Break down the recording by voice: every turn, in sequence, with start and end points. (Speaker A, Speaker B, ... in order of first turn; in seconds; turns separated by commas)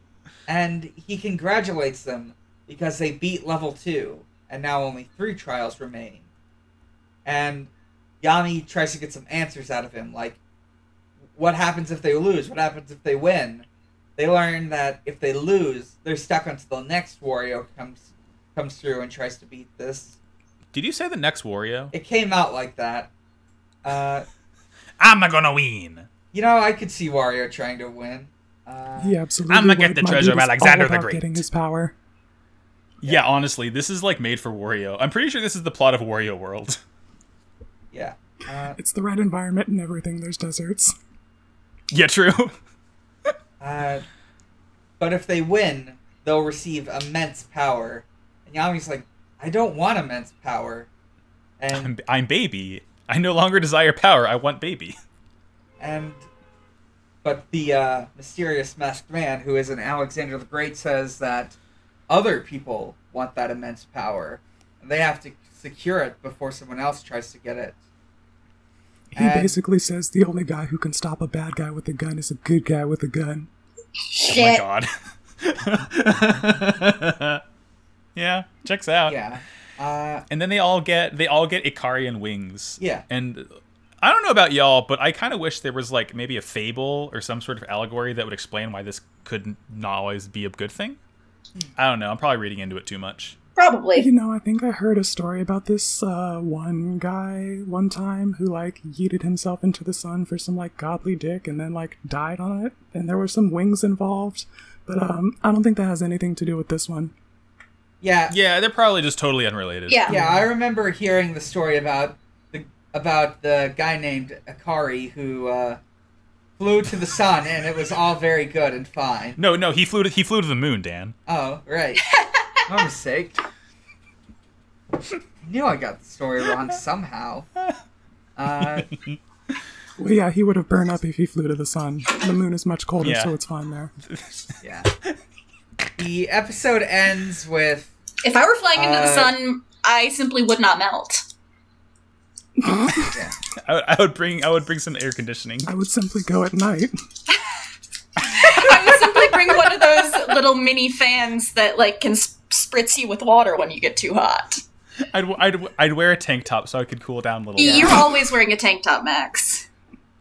Speaker A: 0.5-6.2, Speaker A: 7.2-7.7, Speaker A: 8.2-10.4, Speaker A: 11.3-13.7, Speaker A: 14.2-20.1, Speaker B: 20.7-21.9, Speaker A: 21.9-23.1, Speaker A: 23.8-24.2, Speaker B: 25.0-26.1, Speaker A: 26.3-29.2, Speaker C: 29.0-31.9, Speaker B: 29.5-31.4, Speaker B: 33.0-36.8, Speaker A: 37.9-38.8, Speaker C: 38.8-40.9, Speaker B: 41.9-42.5, Speaker A: 43.6-44.0, Speaker A: 45.0-50.9, Speaker A: 51.6-51.9, Speaker B: 51.7-55.0, Speaker A: 55.8-56.2, Speaker A: 57.2-61.5, Speaker A: 62.1-67.8, Speaker C: 69.1-73.5, Speaker A: 69.2-69.5, Speaker D: 74.1-74.6, Speaker B: 74.2-77.4, Speaker B: 78.2-79.2, Speaker A: 79.1-80.2, Speaker B: 80.3-83.5, Speaker B: 84.0-91.0, Speaker B: 91.8-93.3, Speaker D: 93.5-94.1, Speaker C: 93.9-107.1, Speaker A: 108.0-108.3, Speaker B: 108.3-110.4, Speaker D: 109.9-110.2, Speaker A: 110.1-115.8, Speaker A: 116.6-119.4, Speaker B: 119.4-121.1, Speaker A: 121.3-122.0, Speaker D: 122.1-122.6, Speaker A: 122.7-123.4, Speaker A: 125.4-127.5, Speaker A: 128.3-128.9, Speaker B: 128.8-129.2, Speaker C: 130.0-133.9, Speaker B: 133.0-133.3, Speaker B: 134.0-134.5, Speaker A: 134.6-134.9, Speaker A: 136.0-137.9, Speaker D: 138.2-141.2, Speaker A: 138.7-139.3, Speaker C: 142.6-143.1, Speaker A: 143.1-143.3, Speaker B: 143.6-145.7, Speaker C: 145.7-146.9, Speaker D: 148.4-154.6, Speaker B: 148.4-148.7, Speaker B: 155.1-158.1, Speaker D: 157.6-159.6, Speaker A: 157.6-157.9